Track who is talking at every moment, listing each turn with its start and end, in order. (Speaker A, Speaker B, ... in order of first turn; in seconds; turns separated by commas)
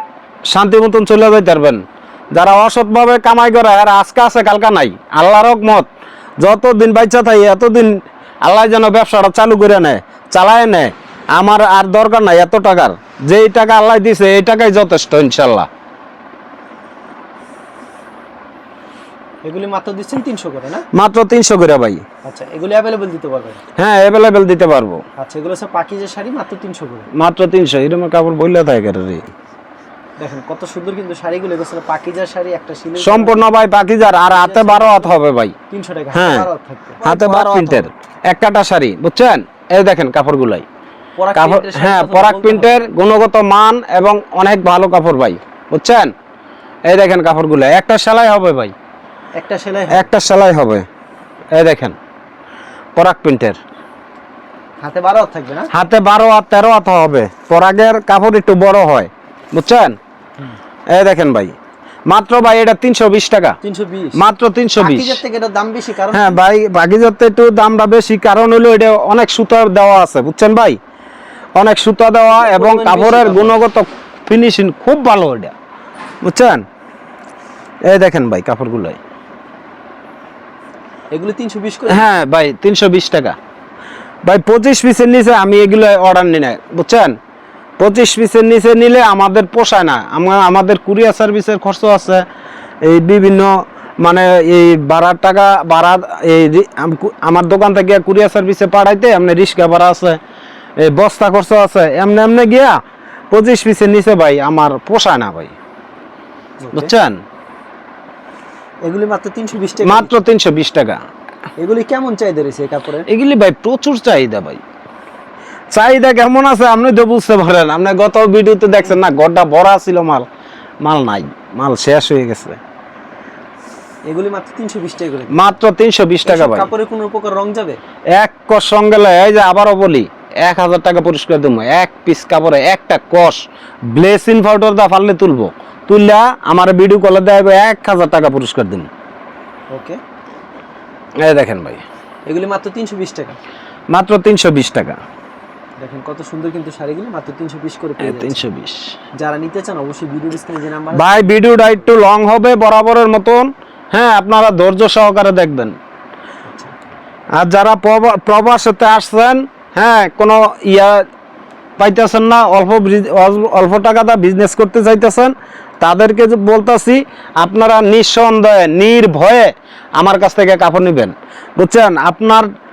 Speaker A: 0.5-1.8, Speaker A: 2.3-5.9, Speaker A: 6.4-15.7, Speaker B: 19.4-20.9, Speaker A: 20.9-22.0, Speaker B: 22.2-23.6, Speaker A: 23.8-25.0, Speaker B: 25.2-27.1, Speaker A: 27.1-29.3, Speaker B: 30.2-33.4, Speaker A: 33.0-35.5, Speaker B: 34.3-35.1, Speaker B: 35.7-37.9, Speaker A: 36.1-36.5, Speaker A: 37.0-40.6, Speaker B: 41.2-42.9, Speaker A: 41.4-46.1, Speaker A: 46.9-48.7, Speaker B: 49.4-50.1, Speaker A: 49.9-50.8, Speaker A: 51.5-52.0, Speaker A: 53.0-53.6, Speaker B: 54.8-55.7, Speaker A: 55.7-60.0, Speaker A: 60.9-61.5, Speaker A: 62.1-63.6, Speaker B: 63.6-64.2, Speaker A: 64.2-65.2, Speaker B: 64.8-66.4, Speaker A: 66.1-70.8, Speaker A: 71.6-75.5, Speaker B: 72.3-73.6, Speaker A: 76.2-76.6, Speaker A: 77.9-79.0, Speaker B: 81.1-82.1, Speaker A: 81.9-83.4, Speaker A: 84.3-87.2, Speaker A: 87.8-92.2, Speaker A: 92.8-100.2, Speaker A: 100.8-102.8, Speaker A: 103.3-105.5, Speaker B: 106.6-106.9, Speaker A: 106.7-107.2, Speaker B: 108.8-110.1, Speaker A: 109.8-111.0, Speaker B: 111.6-113.1, Speaker A: 113.1-114.6, Speaker A: 115.7-120.3, Speaker A: 120.8-122.6, Speaker B: 124.1-125.5, Speaker A: 125.3-126.7, Speaker B: 126.2-127.8, Speaker A: 128.2-138.9, Speaker B: 139.7-140.0, Speaker A: 141.2-141.8, Speaker B: 142.3-143.4, Speaker A: 143.9-145.0, Speaker B: 145.8-148.4, Speaker A: 148.0-148.9, Speaker B: 149.2-151.9, Speaker A: 150.9-155.8, Speaker B: 156.5-156.7, Speaker A: 157.4-161.0, Speaker A: 161.8-172.5